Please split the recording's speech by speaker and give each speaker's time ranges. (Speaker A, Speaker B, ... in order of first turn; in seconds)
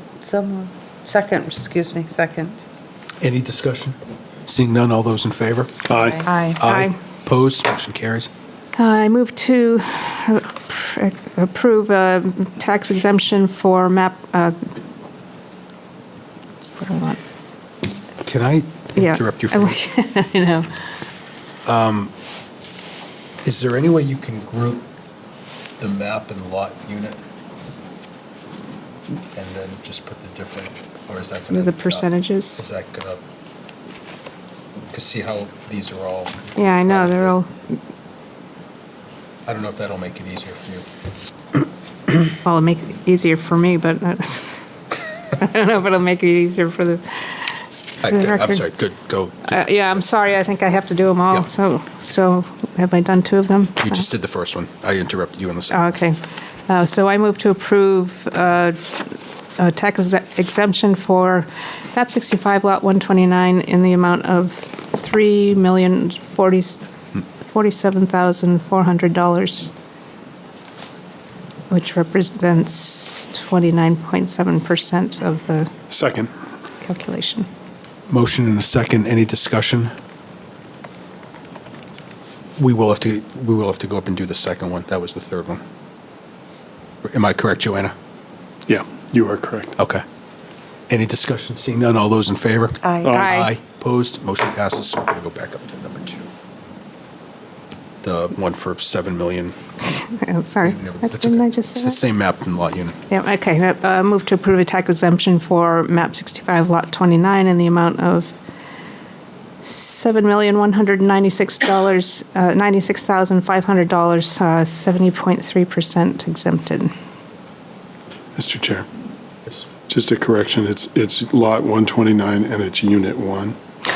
Speaker A: 0.2-2.6, 6.0-6.5, 92.8-93.2
Speaker B: 3.2-8.3, 18.2-19.8, 21.6-22.1, 23.4-24.9, 25.8-27.2, 29.3-33.2, 34.9-37.4, 39.5-40.8, 48.0-50.0, 53.8-55.9, 78.1-79.9, 82.6-85.6, 87.0-87.9, 89.8-90.0, 90.9-96.3, 98.0-99.5, 100.6-102.9
Speaker C: 5.9-6.2, 75.9-76.3, 88.7-89.7, 118.3-118.8, 119.9-123.6
Speaker D: 6.5-6.9, 8.8-14.6, 16.6-17.2, 19.0-20.8, 31.5-32.6, 36.5-37.5, 42.4-44.5, 45.3-47.2, 48.0-48.6, 49.5-54.0, 55.7-59.0, 59.6-66.8, 67.4-69.7, 71.7-75.7, 76.8-77.5, 93.1-93.5, 99.9-102.0, 103.1-108.3, 109.6-116.9